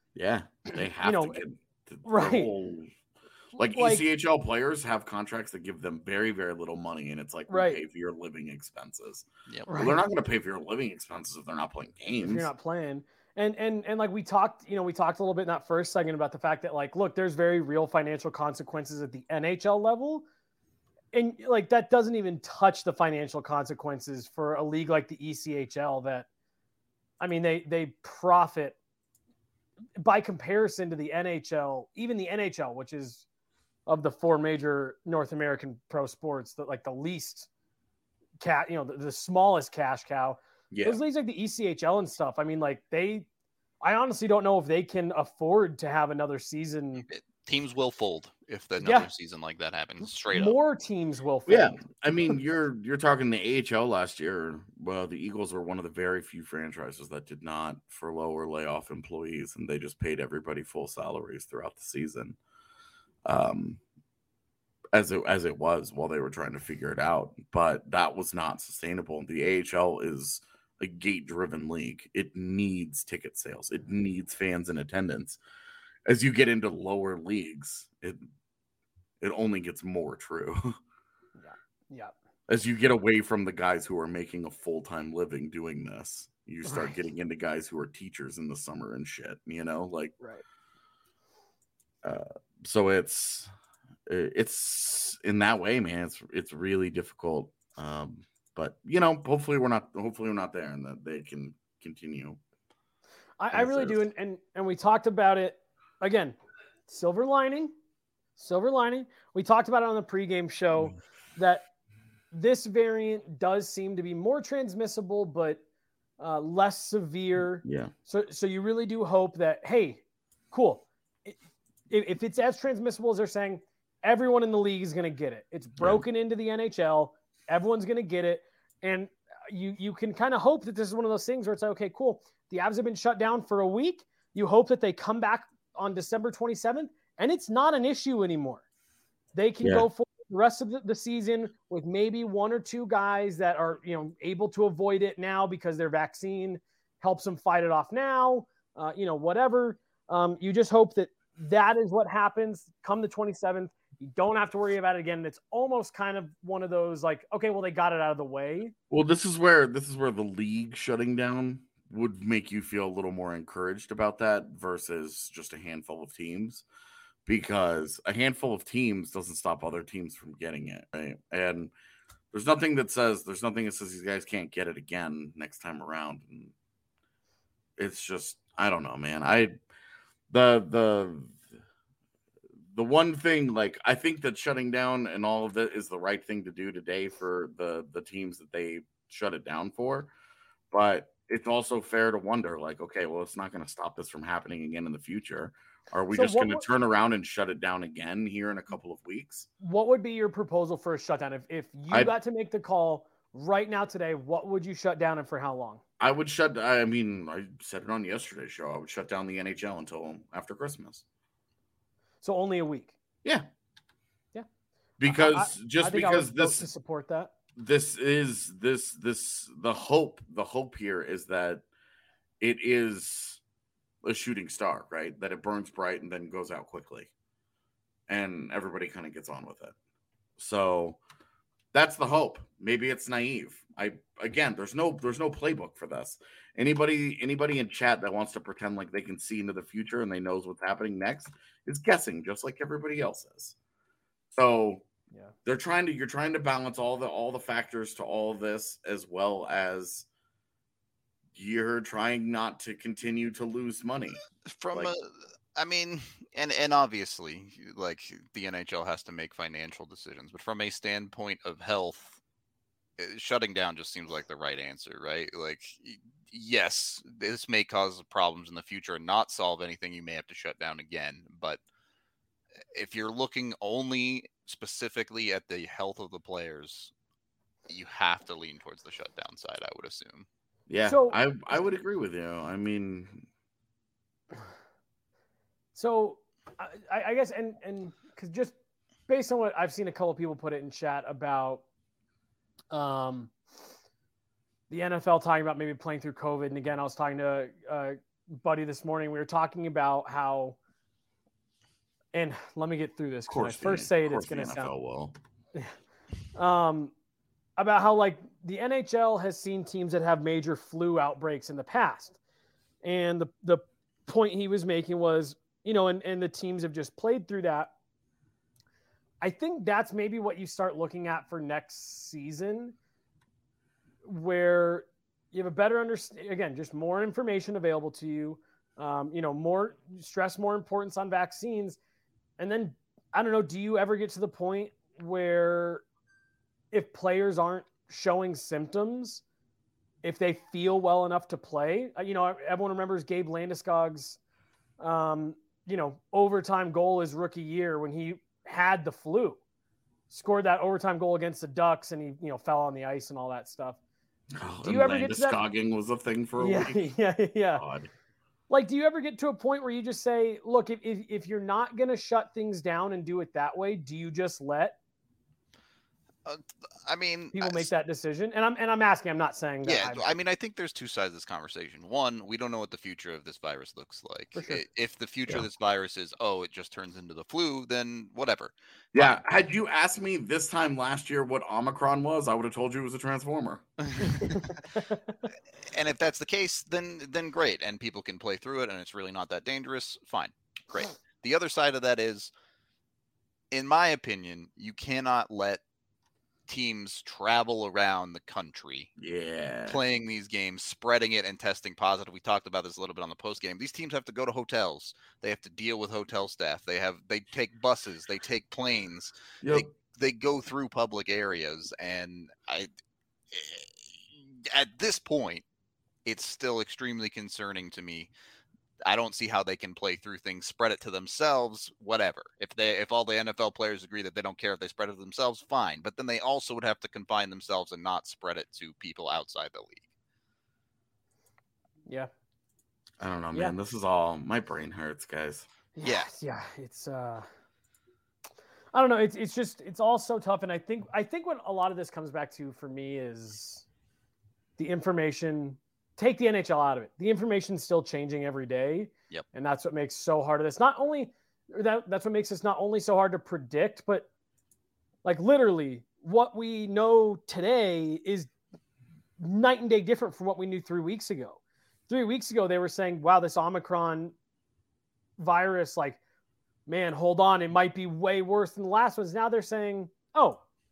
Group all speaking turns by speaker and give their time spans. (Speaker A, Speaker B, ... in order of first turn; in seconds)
Speaker A: 0.1-2.9, 3.5-12.5, 40.7-41.0, 51.5-62.4, 63.2-63.8, 64.9-75.4, 76.0-78.2, 79.2-80.8, 82.5-90.1, 92.0-93.5, 94.1-102.4, 103.5-104.0, 117.6-117.9, 125.8-126.0, 158.9-166.6, 167.2-171.7, 172.3-176.5, 177.8-179.5, 180.3-181.4, 182.7-190.1, 190.7-199.5, 206.0-211.0, 215.0-216.7, 217.6-221.6, 222.4-223.4, 224.0-227.1, 228.1-229.7, 230.4-231.0, 231.7-243.5, 244.3-244.8, 245.4-250.1, 251.3-254.2, 280.7-283.3, 303.3-305.1, 354.4-356.9, 357.6-357.9, 378.9-383.6, 399.0-399.8, 409.4-409.7, 433.0-435.5
Speaker B: 0.7-1.4, 2.0-2.5, 3.5-4.0, 7.5-7.8, 9.7-10.0, 12.2-20.2, 21.1-26.3, 27.2-28.8, 30.0-33.2, 33.9-37.5, 38.4-43.3, 43.8-47.0, 48.8-49.1, 50.3-51.8, 81.4-82.1, 103.4-106.3, 106.9-107.7, 108.3-111.7, 112.3-115.6, 116.2-121.4, 121.9-138.6, 139.3-158.7, 196.1-196.7, 199.6-205.8, 212.2-212.9, 215.0-217.3, 280.8-281.2, 285.7-288.5, 289.1-291.6, 292.7-293.3, 294.7-300.6, 302.1-304.7, 306.3-306.9, 307.6-312.1, 312.8-317.7, 319.2-322.7, 324.0-331.8, 332.4-335.8, 336.7-339.2, 340.0-344.2, 344.8-349.4, 350.1-353.8, 354.6-355.4, 356.4-357.6, 358.5-364.8, 367.3-370.1, 374.3-374.6, 384.0-385.0, 435.8-437.3, 438.7-443.6, 444.6-454.1, 455.0-458.3, 459.2-464.1, 465.2-466.0, 466.7-470.4
Speaker C: 47.0-50.6, 254.4-262.2, 263.0-271.6, 272.7-276.9, 277.7-280.3, 366.2-367.7, 369.6-379.2, 383.9-384.6, 385.6-392.3, 393.5-395.6, 396.5-398.9, 399.7-412.7, 413.3-415.4, 416.0-418.1, 418.8-429.8, 435.8-436.1